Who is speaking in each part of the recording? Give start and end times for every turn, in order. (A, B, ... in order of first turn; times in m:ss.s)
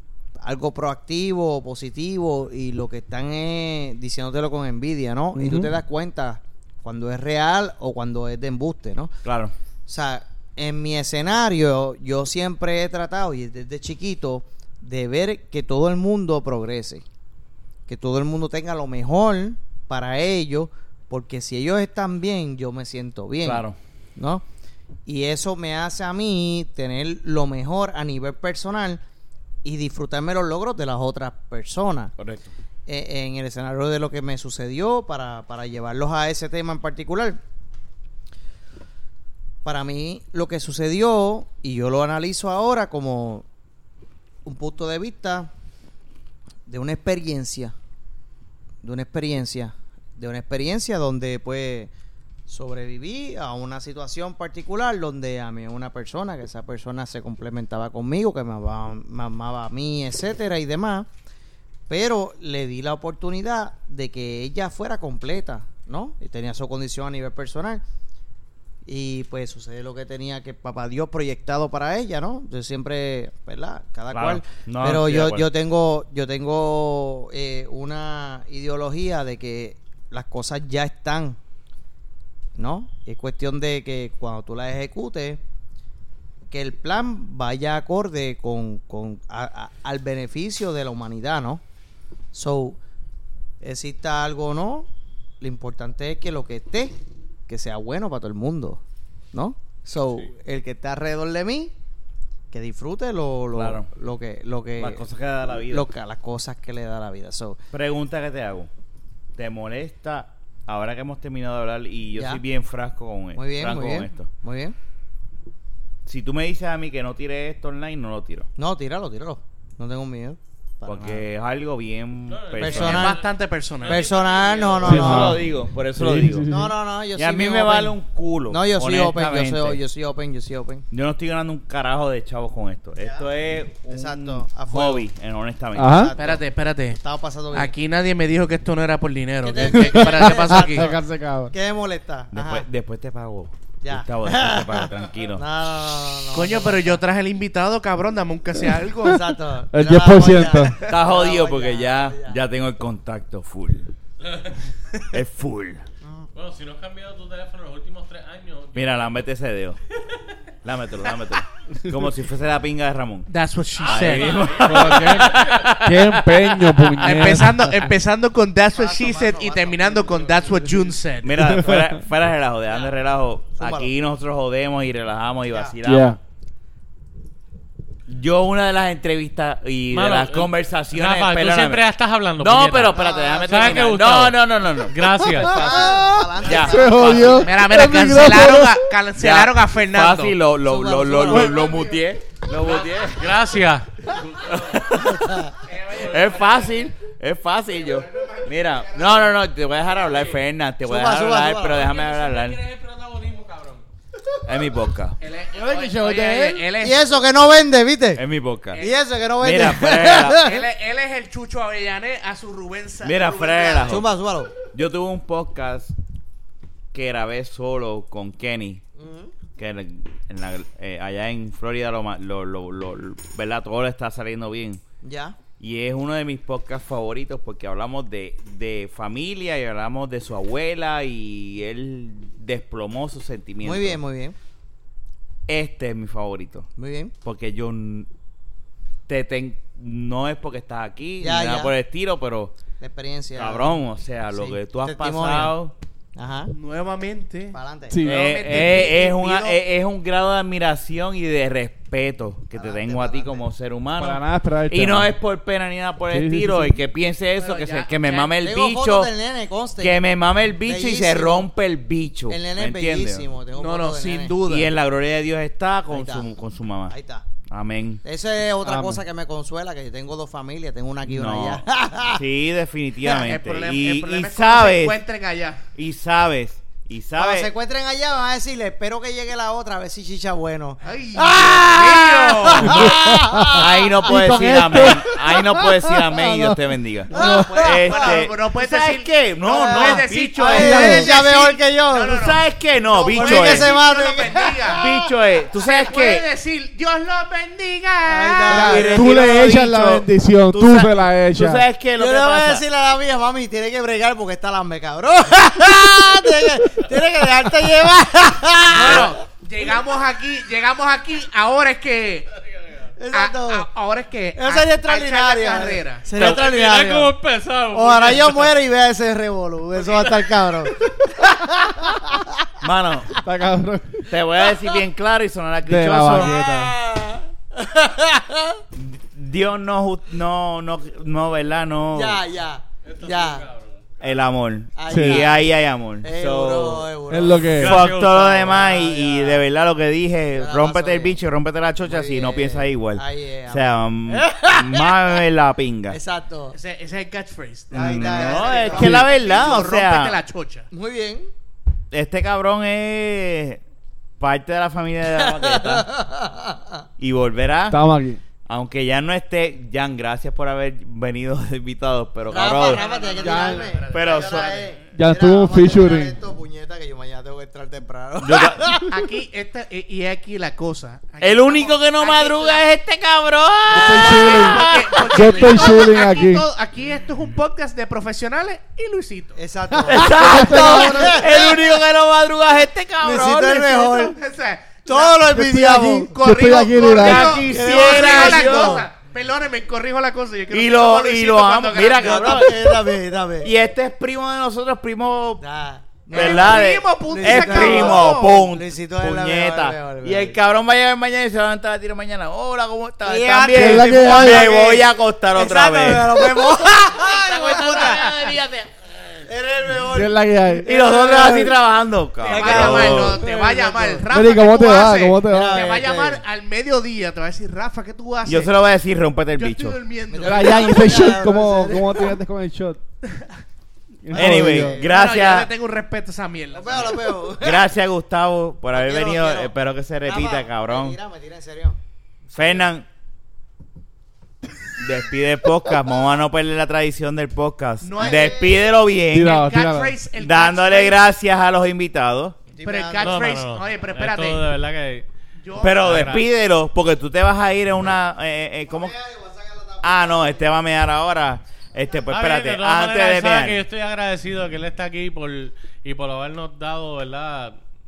0:00.4-0:09.1 A
0:05.4-0:05.7 B
0:09.2-0:09.5 B
0:09.9-0:17.0 A
0:17.9-0:23.6 A
0:23.4-0:23.8 B
0:24.2-0:24.4 A
0:25.1-0:29.0 A
0:29.6-0:32.1 A
0:32.2-0:32.5 B
0:32.9-0:37.4 A
0:39.6-0:43.5 A
0:44.4-0:45.5 A
0:46.7-0:47.8 A
0:48.8-0:51.9 A
0:52.5-1:01.1 A
1:01.9-1:07.8 A
1:08.8-1:21.4 A
1:14.1-1:15.5 B
1:22.6-1:25.4 A
1:26.5-1:31.6 A
1:32.3-1:32.8 A
1:33.6-1:34.9 A
1:35.4-1:37.0 A
1:37.5-1:38.8 A
1:39.3-1:41.7 A
1:42.5-1:45.0 A
1:43.5-1:43.9 B
1:44.8-1:45.9 B
1:45.6-1:47.6 A
1:47.7-1:48.7 B
1:49.4-1:54.3 B
1:52.1-1:52.4 A
1:53.4-1:54.8 A
1:56.1-1:58.5 B
1:58.6-2:01.2 A
2:00.9-2:03.2 B
2:02.3-2:05.2 C
2:02.6-2:03.2 A
2:02.7-2:04.1 D
2:03.9-2:05.4 A
2:04.8-2:06.5 B
2:04.8-2:06.7 E
2:06.5-2:10.9 A
2:07.2-2:09.8 B
2:10.9-2:16.1 B
2:13.0-2:13.3 A
2:13.9-2:15.1 A
2:15.8-2:16.1 E
2:15.9-2:16.4 A
2:16.2-2:17.0 D
2:16.9-2:17.7 A
2:17.5-2:20.9 D
2:19.4-2:22.7 A
2:19.7-2:21.5 E
2:22.3-2:25.4 B
2:23.8-2:27.0 A
2:26.3-2:29.2 D
2:29.0-2:32.4 A
2:29.7-2:30.8 E
2:30.9-2:33.9 B
2:34.2-2:34.6 C
2:35.1-2:35.8 B
2:36.0-2:36.3 A
2:36.4-2:39.1 C
2:38.7-2:39.8 B
2:40.6-2:43.3 B
2:43.3-2:44.5 D
2:43.8-2:46.2 B
2:43.8-2:47.0 C
2:44.6-2:47.8 E
2:47.0-2:51.6 D
2:48.8-2:50.9 A
2:51.2-2:56.2 B
2:51.4-2:52.0 E
2:53.6-2:53.9 A
2:55.5-2:55.7 A
2:55.8-2:56.2 E
2:58.1-3:01.8 B
2:59.9-3:03.0 C
3:02.4-3:05.9 B
3:02.9-3:04.0 A
3:03.5-3:04.4 C
3:04.9-3:05.6 C
3:05.3-3:07.5 A
3:05.5-3:08.8 E
3:06.4-3:07.5 B
3:07.4-3:12.0 D
3:09.2-3:13.4 B
3:11.3-3:11.7 E
3:12.6-3:14.9 C
3:14.4-3:22.6 B
3:15.2-3:15.5 A
3:15.6-3:16.9 D
3:17.7-3:19.4 D
3:19.9-3:20.4 D
3:20.8-3:21.9 A
3:21.8-3:23.8 C
3:24.4-3:25.2 B
3:25.2-3:27.1 D
3:25.6-3:26.6 E
3:26.8-3:28.2 A
3:28.2-3:28.8 B
3:28.8-3:30.6 A
3:29.4-3:30.5 B
3:30.3-3:34.1 D
3:33.0-3:34.1 B
3:33.9-3:34.5 A
3:34.7-3:36.0 B
3:36.9-3:38.8 B
3:39.0-3:39.3 A
3:39.6-3:44.8 B
3:45.0-3:45.4 A
3:45.6-3:54.0 B
3:53.6-3:54.4 A
3:55.5-3:56.7 B
3:56.8-3:57.1 A
3:57.2-3:58.1 B
3:59.1-4:02.6 B
4:01.2-4:01.8 A
4:02.8-4:03.8 A
4:03.4-4:05.7 B
4:04.3-4:05.6 A
4:06.2-4:06.5 A
4:06.5-4:09.6 D
4:07.5-4:08.0 A
4:07.9-4:08.8 E
4:08.0-4:19.1 B
4:12.5-4:13.5 A
4:14.0-4:15.1 E
4:16.1-4:16.7 E
4:17.4-4:18.3 D
4:18.4-4:20.0 A
4:19.8-4:23.3 B
4:20.7-4:21.5 A
4:22.3-4:24.4 A
4:23.6-4:24.7 D
4:24.5-4:26.9 B
4:25.9-4:26.3 A
4:26.9-4:27.3 A
4:27.5-4:28.0 B
4:28.0-4:32.2 A
4:28.6-4:29.0 E
4:31.1-4:35.0 B
4:33.0-4:35.6 D
4:35.8-4:37.5 B
4:37.2-4:46.5 A
4:40.8-4:42.9 D
4:41.3-4:42.5 B
4:42.6-4:45.2 E
4:43.5-4:51.1 B
4:47.1-4:48.2 A
4:47.1-4:52.4 D
4:47.2-4:47.6 E
4:49.5-4:52.2 A
4:52.1-4:53.8 B
4:52.9-4:55.1 A
4:53.1-4:54.8 D
4:54.7-4:56.3 B
4:55.6-4:59.1 D
4:58.1-4:59.1 A
4:58.5-5:02.6 B
4:58.5-5:01.6 E
5:02.0-5:09.2 A
5:08.7-5:12.3 D
5:08.8-5:09.1 B
5:13.0-5:13.7 A
5:13.1-5:16.1 D
5:14.4-5:17.2 A
5:16.2-5:18.6 C
5:17.7-5:22.5 A
5:22.6-5:23.2 B
5:23.2-5:24.1 E
5:24.1-5:26.4 B
5:25.6-5:26.8 E
5:26.1-5:28.6 A
5:28.7-5:32.2 B
5:31.9-5:33.5 A
5:32.8-5:34.2 C
5:34.0-5:36.9 B
5:34.8-5:35.5 A
5:34.9-5:35.3 E
5:36.0-5:37.7 A
5:37.1-5:37.8 E
5:37.6-5:46.0 B
5:37.6-5:38.6 C
5:38.4-5:39.4 A
5:40.4-5:41.2 A
5:41.8-5:45.2 A
5:45.9-5:46.6 A
5:46.5-5:50.7 D
5:47.7-5:49.0 A
5:47.7-5:50.2 B
5:50.7-5:51.3 A
5:51.9-5:53.6 B
5:54.2-5:55.9 B
5:55.1-5:56.8 A
5:57.0-5:57.8 B
5:57.7-5:58.2 E
5:58.4-6:02.8 B
6:02.3-6:08.9 A
6:02.6-6:04.8 D
6:03.2-6:03.7 E
6:03.9-6:04.8 B
6:04.9-6:06.2 E
6:08.2-6:08.7 B
6:08.9-6:12.7 D
6:11.2-6:15.7 B
6:13.7-6:19.4 D
6:13.7-6:16.4 E
6:19.4-6:21.6 A
6:19.9-6:24.0 B
6:20.1-6:21.2 E
6:23.0-6:24.2 A
6:23.9-6:32.5 D
6:24.8-6:26.2 A
6:25.3-6:27.4 E
6:26.8-6:28.8 B
6:27.0-6:28.9 A
6:30.5-6:32.8 B
6:32.0-6:33.5 A
6:33.4-6:35.4 B
6:35.4-6:40.4 A
6:36.1-6:49.0 B
6:36.1-6:38.5 D
6:43.0-6:48.1 A
6:43.5-6:44.6 E
6:47.6-6:48.1 D
6:49.2-6:51.6 A
6:49.9-6:50.7 E
6:50.6-6:53.2 B
6:52.2-6:54.0 A
6:52.3-6:58.5 D
6:54.1-6:55.6 E
6:55.2-6:56.2 A
6:58.3-6:59.8 B
6:59.4-7:01.2 D
7:00.1-7:02.2 A
7:00.2-7:02.8 E
7:03.1-7:03.3 D
7:04.0-7:04.8 E
7:04.1-7:05.1 A
7:04.1-7:05.5 B
7:04.2-7:07.1 D
7:06.5-7:07.7 A
7:07.4-7:11.0 B
7:08.7-7:09.5 A
7:10.0-7:11.8 A
7:12.3-7:12.6 A
7:12.3-7:12.9 B
7:14.8-7:19.4 B
7:17.8-7:18.5 D
7:18.0-7:18.6 A
7:19.1-7:20.0 E
7:19.2-7:21.0 D
7:20.2-7:22.4 B
7:22.6-7:23.4 A
7:22.6-7:24.5 D
7:23.0-7:25.1 C
7:25.4-7:26.2 D
7:25.6-7:29.0 B
7:25.6-7:26.2 C
7:28.7-7:30.4 A
7:29.8-7:33.6 B
7:32.1-7:37.6 C